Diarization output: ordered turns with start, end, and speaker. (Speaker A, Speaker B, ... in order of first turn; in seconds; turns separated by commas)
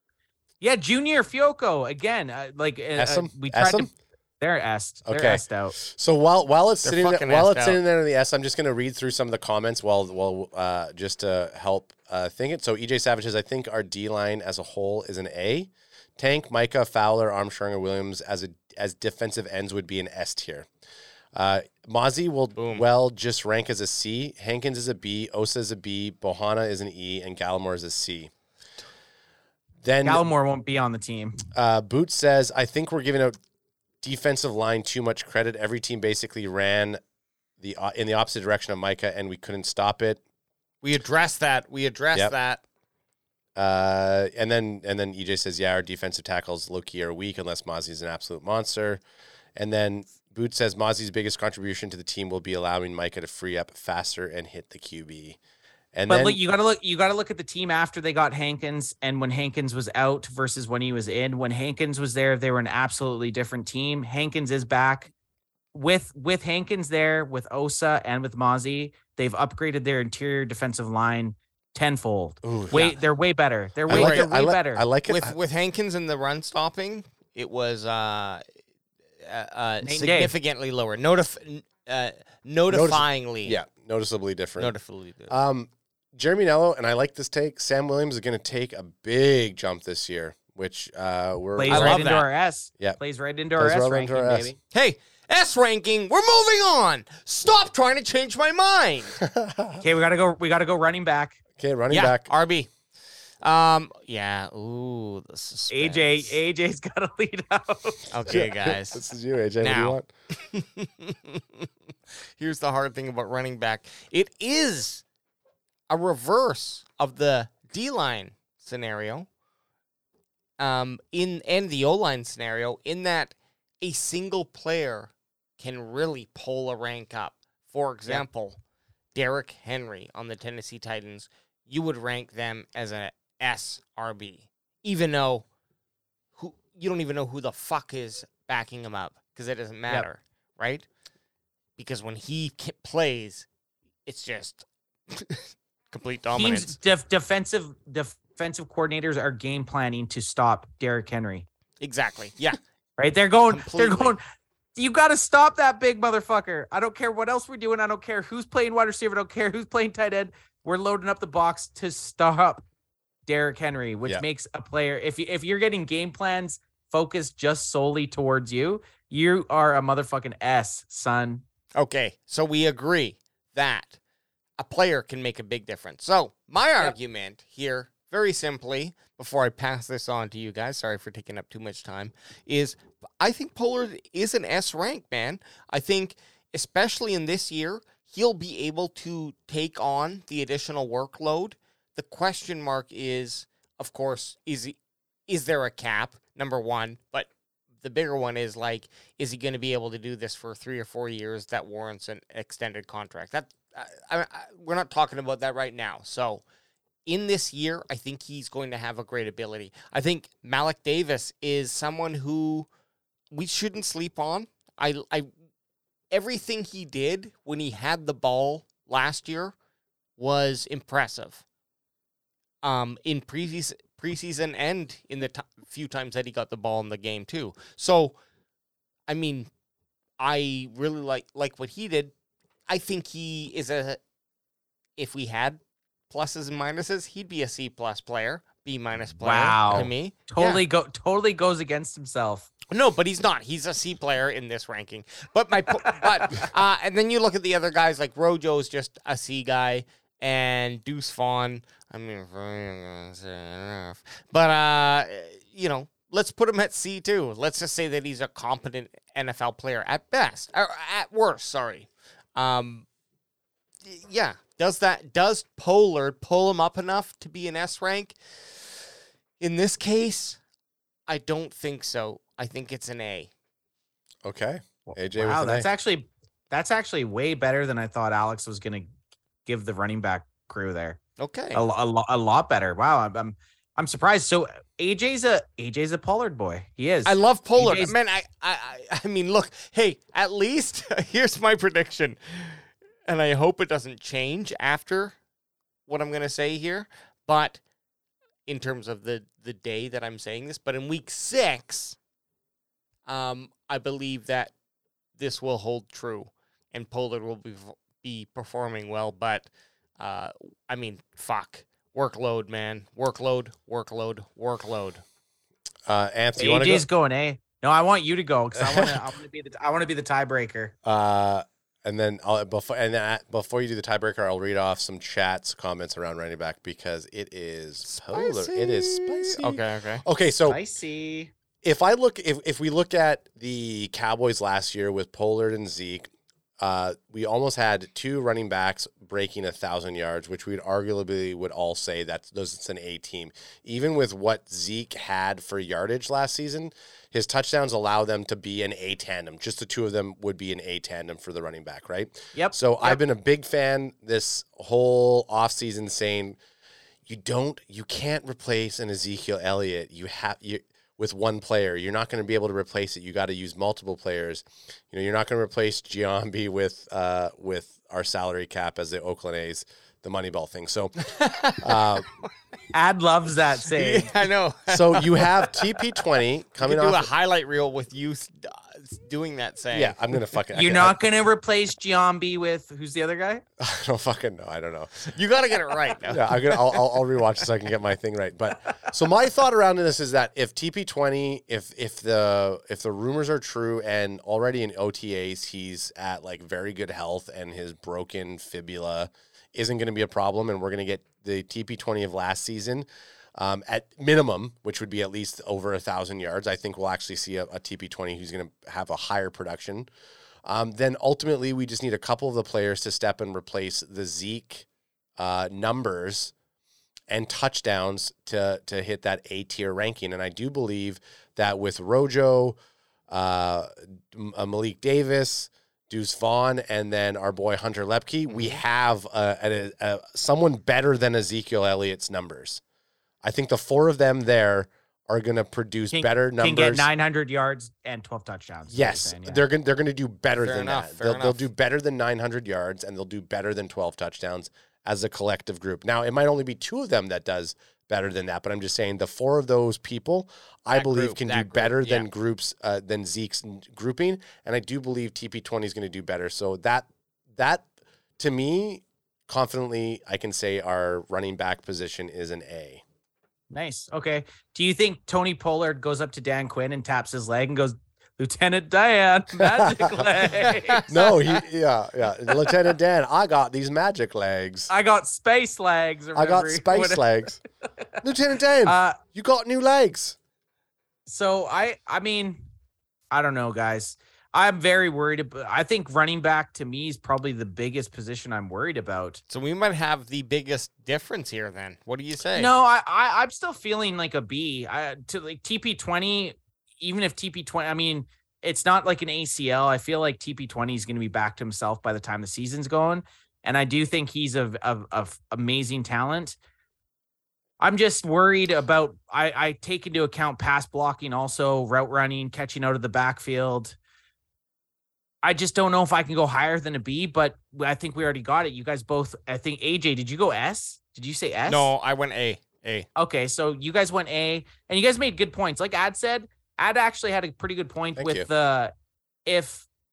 Speaker A: 0.6-5.8, Speaker B: 3.0-3.9, Speaker B: 5.1-20.7, Speaker C: 6.8-7.8, Speaker B: 21.4-28.3, Speaker C: 22.6-22.9, Speaker B: 29.8-30.3, Speaker A: 30.1-31.4, Speaker B: 31.5-33.4, Speaker B: 34.0-37.0, Speaker B: 37.6-40.2, Speaker C: 40.8-42.6, Speaker B: 43.6-49.0, Speaker B: 49.6-55.4, Speaker B: 55.9-56.4, Speaker A: 56.1-65.1, Speaker A: 65.7-74.8, Speaker B: 72.4-72.8, Speaker C: 72.7-73.0, Speaker B: 73.9-75.4, Speaker C: 73.9-74.3, Speaker C: 75.1-78.4, Speaker C: 79.2-83.6, Speaker A: 79.8-80.3, Speaker B: 82.7-84.7, Speaker C: 84.6-85.3, Speaker B: 85.3-92.1, Speaker A: 91.6-94.6, Speaker C: 91.7-92.3, Speaker B: 93.6-94.5, Speaker C: 94.7-99.2, Speaker B: 99.2-99.8, Speaker A: 99.8-101.4, Speaker B: 101.6-102.3, Speaker C: 101.9-102.7, Speaker C: 103.4-106.4, Speaker A: 105.7-108.1, Speaker C: 108.1-109.0, Speaker B: 108.3-110.1, Speaker C: 109.6-111.7, Speaker C: 112.4-115.0, Speaker C: 115.9-119.3, Speaker C: 120.6-128.6, Speaker C: 129.1-135.4, Speaker C: 136.4-140.9, Speaker C: 141.8-143.5, Speaker C: 144.1-146.8, Speaker A: 146.3-151.5, Speaker C: 151.8-152.6, Speaker A: 153.0-154.2, Speaker C: 153.5-154.2, Speaker A: 154.8-162.6, Speaker A: 163.3-171.4, Speaker C: 171.8-174.0, Speaker C: 174.6-194.8, Speaker C: 195.3-197.3, Speaker C: 197.8-206.4, Speaker C: 207.1-212.7, Speaker C: 213.3-215.3, Speaker C: 216.1-219.6, Speaker C: 220.2-221.4, Speaker C: 222.6-228.2, Speaker C: 229.1-229.5, Speaker C: 230.2-232.1, Speaker C: 232.7-234.0, Speaker C: 235.0-240.6, Speaker A: 239.2-242.5, Speaker C: 242.7-262.9, Speaker C: 263.8-268.8, Speaker C: 269.4-270.4, Speaker C: 271.1-273.3, Speaker B: 274.2-275.7, Speaker A: 274.9-278.9, Speaker A: 279.5-281.0, Speaker C: 281.2-281.6, Speaker A: 281.5-287.9, Speaker C: 287.1-295.2, Speaker C: 295.9-297.6, Speaker C: 298.5-302.0, Speaker C: 303.1-304.5, Speaker C: 305.2-315.0, Speaker B: 315.9-316.9, Speaker A: 316.4-320.7, Speaker B: 318.6-319.0, Speaker B: 320.9-330.6, Speaker C: 327.8-330.0, Speaker A: 330.5-331.3, Speaker B: 331.6-336.1, Speaker B: 336.6-356.4, Speaker A: 352.4-353.0, Speaker B: 357.1-370.9, Speaker C: 371.0-371.8, Speaker B: 371.5-372.1, Speaker A: 372.7-374.1, Speaker C: 373.7-375.9, Speaker B: 374.7-377.1, Speaker C: 376.6-380.0, Speaker B: 379.7-381.0, Speaker A: 380.5-383.4, Speaker B: 383.6-384.9, Speaker C: 385.1-386.8, Speaker B: 386.1-402.9, Speaker B: 403.4-409.9, Speaker B: 410.4-414.7, Speaker B: 415.2-416.3, Speaker B: 417.1-422.6, Speaker B: 423.1-432.6, Speaker B: 433.2-436.9, Speaker A: 435.9-439.4, Speaker B: 438.7-457.7, Speaker C: 440.4-441.4, Speaker C: 450.7-452.1, Speaker B: 458.2-462.8, Speaker A: 463.5-471.2, Speaker B: 469.4-470.3, Speaker B: 470.9-474.7, Speaker A: 474.7-477.2, Speaker B: 476.1-477.4, Speaker B: 478.0-480.2, Speaker A: 478.6-479.0, Speaker A: 481.1-482.4, Speaker A: 483.1-489.2, Speaker C: 489.3-492.5, Speaker A: 492.4-506.4, Speaker A: 507.6-513.8, Speaker A: 515.2-521.7, Speaker C: 521.5-522.9, Speaker A: 523.0-528.7, Speaker B: 528.0-528.3, Speaker A: 529.3-529.7